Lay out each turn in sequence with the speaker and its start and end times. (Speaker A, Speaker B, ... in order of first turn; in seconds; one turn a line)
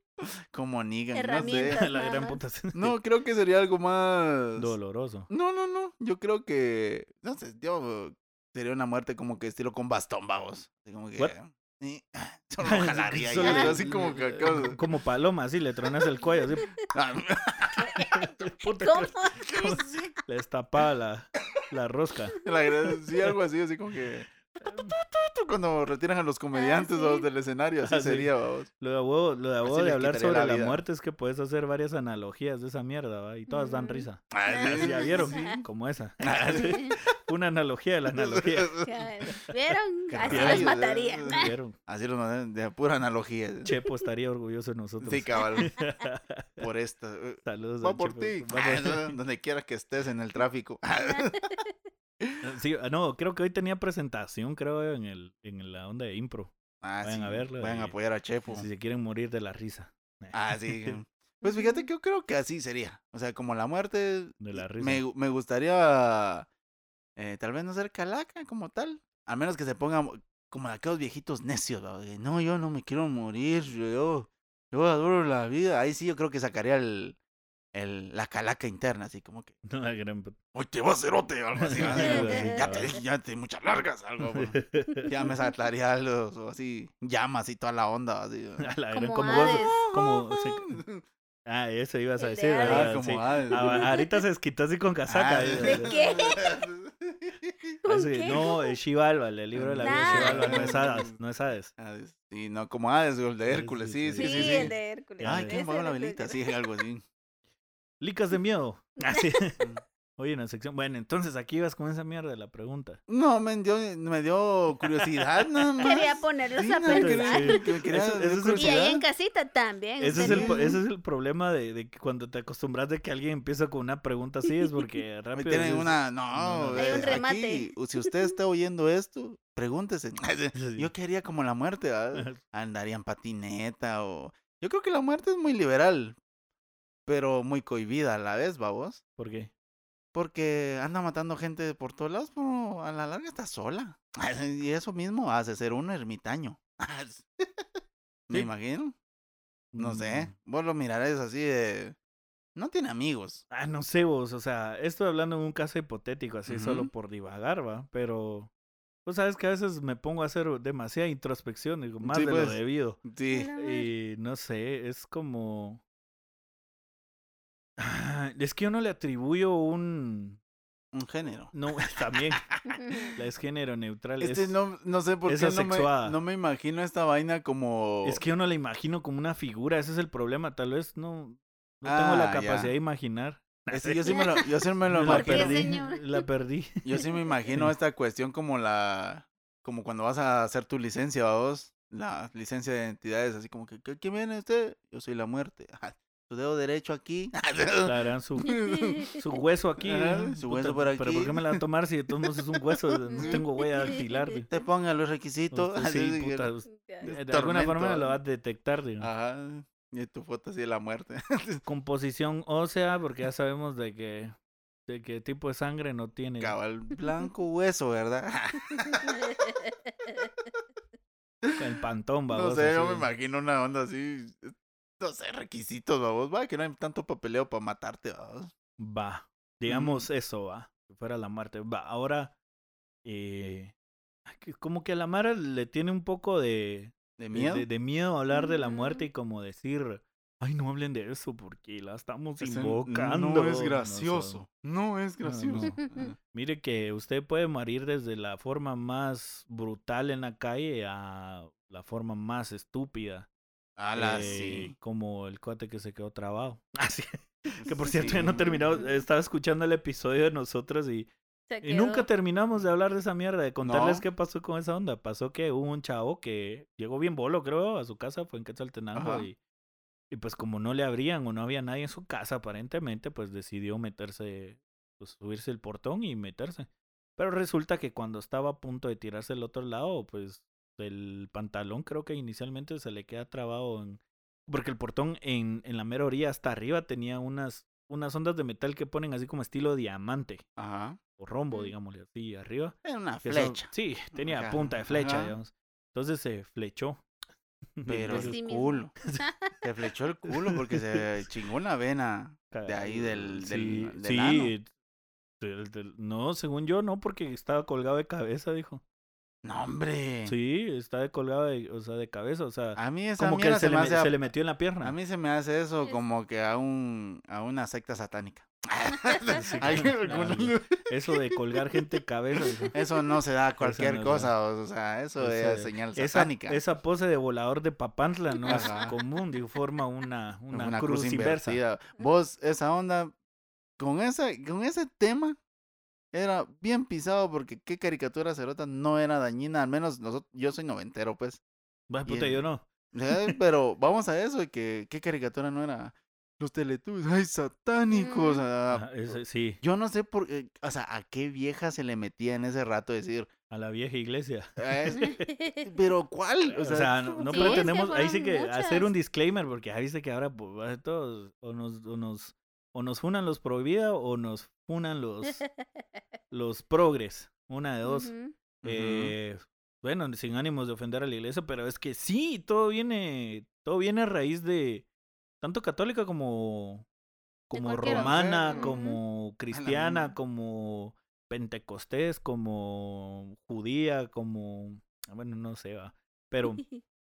Speaker A: 0.2-1.8
Speaker B: 1.1-2.4
Speaker C: 1.5-3.0
Speaker A: 2.8-4.7
Speaker C: 4.6-5.3
Speaker A: 5.3-14.8
Speaker C: 12.6-16.7
Speaker B: 13.4-13.8
Speaker A: 16.9-18.0
Speaker B: 17.8-18.1
Speaker C: 18.0-22.4
Speaker B: 18.8-19.8
Speaker A: 19.4-20.1
Speaker A: 22.4-28.7
Speaker C: 24.6-24.9
Speaker B: 26.5-27.3
Speaker C: 27.8-38.8
Speaker A: 29.6-30.8
Speaker B: 33.5-35.6
Speaker A: 34.3-35.6
Speaker A: 36.2-36.8
Speaker B: 36.5-37.0
Speaker A: 38.1-39.1
Speaker B: 38.8-41.5
Speaker A: 40.1-43.7
Speaker C: 40.2-41.8
Speaker C: 43.6-46.7
Speaker A: 45.0-45.7
Speaker A: 46.6-51.5
Speaker C: 47.4-49.2
Speaker B: 51.1-51.7
Speaker C: 52.4-58.0
Speaker A: 56.8-58.7
Speaker C: 58.5-61.0
Speaker A: 60.3-66.5
Speaker B: 61.4-61.9
Speaker C: 64.4-65.0
Speaker A: 67.2-77.2
Speaker A: 77.7-79.6
Speaker C: 79.7-80.4
Speaker A: 80.5-84.5
Speaker C: 81.6-83.0
Speaker B: 82.0-83.0
Speaker C: 84.2-85.1
Speaker A: 85.1-88.7
Speaker C: 88.6-90.8
Speaker B: 88.9-89.9
Speaker A: 89.3-91.0
Speaker C: 91.5-96.0
Speaker B: 92.2-94.2
Speaker A: 92.6-93.9
Speaker A: 95.1-97.8
Speaker B: 95.6-96.6
Speaker B: 97.8-98.7
Speaker C: 97.9-101.7
Speaker A: 99.5-101.2
Speaker B: 99.8-100.7
Speaker A: 101.8-107.0
Speaker C: 103.5-105.6
Speaker B: 104.2-106.3
Speaker C: 108.0-109.6
Speaker C: 110.2-113.0
Speaker A: 113.1-119.0
Speaker B: 115.8-117.7
Speaker C: 116.9-118.8
Speaker B: 118.5-120.7
Speaker C: 120.0-127.2
Speaker A: 120.2-120.8
Speaker A: 125.3-136.2
Speaker B: 126.8-128.3
Speaker C: 130.6-130.9
Speaker C: 132.1-132.4
Speaker A: 137.1-139.0
Speaker C: 139.2-139.5
Speaker A: 140.1-147.6
Speaker A: 148.3-148.9
Speaker C: 149.7-150.3
Speaker A: 149.8-152.0
Speaker A: 152.6-153.4
Speaker C: 153.5-158.5
Speaker A: 156.5-156.9
Speaker C: 159.1-163.0
Speaker A: 162.0-163.5
Speaker B: 163.3-163.9
Speaker C: 163.6-165.8
Speaker C: 167.8-170.4
Speaker A: 170.9-171.5
Speaker C: 171.5-172.5
Speaker A: 172.3-173.1
Speaker B: 172.7-173.1
Speaker C: 173.2-174.6
Speaker A: 174.2-178.2
Speaker C: 175.2-176.2
Speaker C: 178.0-184.2
Speaker A: 181.8-182.7
Speaker A: 183.7-185.8
Speaker B: 184.1-186.3
Speaker C: 184.9-186.8
Speaker A: 186.8-197.9
Speaker B: 187.0-187.3
Speaker C: 197.8-198.6
Speaker A: 198.5-199.2
Speaker B: 198.7-199.0
Speaker C: 199.2-204.5
Speaker A: 199.8-201.6
Speaker A: 202.2-203.9
Speaker B: 203.1-204.4
Speaker A: 204.5-206.5
Speaker C: 205.5-209.1
Speaker B: 206.7-207.1
Speaker A: 207.0-208.2
Speaker A: 209.0-211.6
Speaker C: 211.7-214.3
Speaker C: 214.9-216.6
Speaker A: 216.4-219.5
Speaker B: 219.0-220.3
Speaker C: 221.6-223.1
Speaker A: 222.3-228.5
Speaker C: 228.8-232.4
Speaker A: 229.7-230.1
Speaker C: 233.1-233.7
Speaker C: 234.3-244.4
Speaker A: 237.2-237.7
Speaker B: 238.3-239.1
Speaker A: 242.4-246.2
Speaker C: 245.2-253.3
Speaker B: 245.6-246.1
Speaker A: 253.8-254.8
Speaker C: 253.9-261.1
Speaker A: 257.7-258.6
Speaker B: 258.1-258.9
Speaker B: 261.5-262.1
Speaker C: 261.6-269.4
Speaker A: 263.6-264.1
Speaker A: 268.9-269.3
Speaker C: 270.1-290.4
Speaker A: 290.6-291.0
Speaker C: 291.2-297.1
Speaker A: 292.8-295.4
Speaker C: 297.8-298.4
Speaker A: 297.9-298.9
Speaker B: 298.1-299.5
Speaker A: 299.6-304.5
Speaker C: 300.5-301.0
Speaker C: 302.5-304.7
Speaker C: 305.4-308.8
Speaker A: 309.4-310.3
Speaker C: 310.3-314.9
Speaker A: 312.8-314.2
Speaker A: 314.8-321.2
Speaker C: 319.3-322.8
Speaker B: 319.3-319.8
Speaker A: 322.7-326.6
Speaker C: 323.6-324.3
Speaker C: 325.2-331.6
Speaker B: 328.4-329.0
Speaker A: 328.5-329.0
Speaker A: 330.5-333.1
Speaker A: 333.8-335.4
Speaker A: 336.1-341.4
Speaker C: 341.9-343.3
Speaker A: 342.1-353.3
Speaker B: 347.9-348.4
Speaker C: 348.7-349.6
Speaker C: 353.5-355.3
Speaker A: 354.6-355.1
Speaker B: 354.9-355.7
Speaker A: 355.6-357.7
Speaker C: 356.5-365.4
Speaker B: 357.3-358.9
Speaker B: 365.3-365.8
Speaker C: 366.3-368.1
Speaker B: 367.9-368.4
Speaker A: 368.6-369.1
Speaker C: 368.6-374.9
Speaker C: 375.4-376.9
Speaker C: 377.5-386.6
Speaker B: 377.5-379.0
Speaker A: 377.8-378.7
Speaker A: 379.5-380.1